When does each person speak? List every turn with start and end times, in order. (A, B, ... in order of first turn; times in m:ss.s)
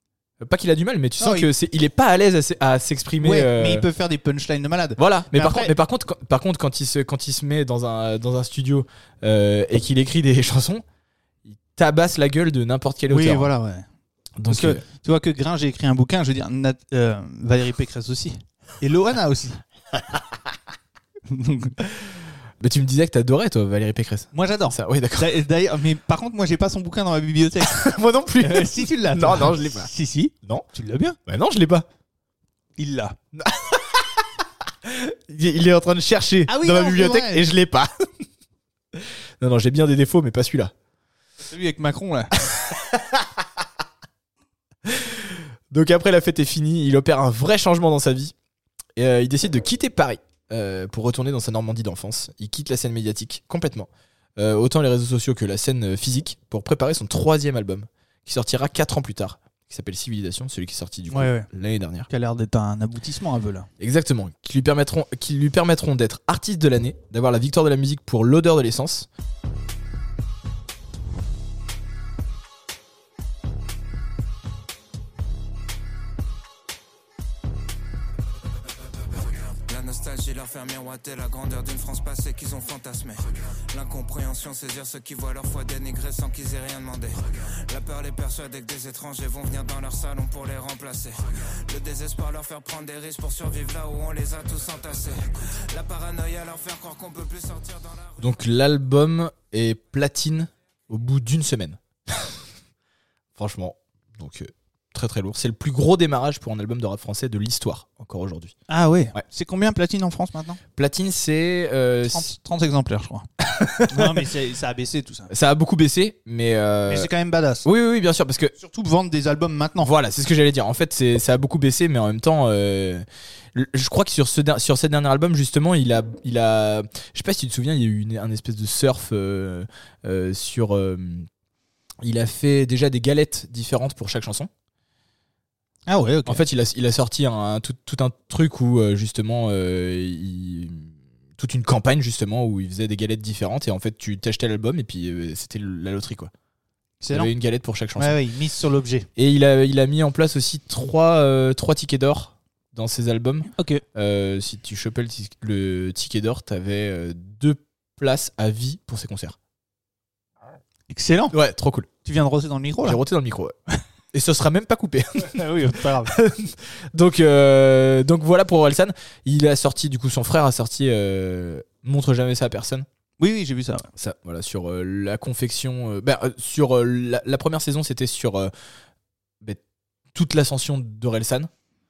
0:00.4-0:03.8 A
0:01.2-0:01.5 B
0:03.2-0:05.7 B
0:05.0-0:10.8 A
0:11.5-0:13.5 A
0:13.1-0:13.8 B
0:14.4-0:14.8 A
0:14.5-0:19.6 B
0:21.3-0:21.8 B
0:22.0-0:25.3 A
0:24.3-0:31.2 B
0:27.7-0:29.9 A
0:31.3-0:31.9 A
0:32.8-0:33.2 B
0:33.3-0:34.2 A
0:34.8-0:38.0 A
0:36.5-0:37.4 B
0:38.9-0:40.7 A
0:41.4-0:42.3 B
0:42.4-0:43.4 A
0:44.9-0:48.3 A
0:49.0-1:02.1 A
1:01.1-1:01.5 B
1:02.1-1:03.7 B
1:03.8-1:09.1 A
1:19.5-1:38.2 C
1:38.2-1:42.4 A
1:43.4-1:48.5 A
1:48.7-1:50.6 B
1:50.8-1:52.3 A
1:52.1-1:53.3 B
1:53.4-1:54.2 A
1:53.9-1:55.3 B
1:55.3-1:57.1 A
1:56.9-1:57.7 B
1:57.6-1:58.6 A
1:58.6-1:59.9 B
1:59.8-2:11.3 A
2:12.0-2:14.5 A
2:15.9-2:16.4 B
2:16.3-2:26.3 A
2:27.0-2:27.3 B
2:27.1-2:28.2 A
2:28.0-2:29.1 B
2:29.2-2:39.4 A
2:33.6-2:33.8 B
2:40.9-2:41.3 B
2:41.3-2:41.9 A
2:42.0-2:43.0 B
2:42.8-2:43.6 A
2:44.1-2:52.9 A
2:45.2-2:46.2 B
2:53.2-2:53.9 B
2:54.0-2:58.5 A
3:00.1-3:01.5 A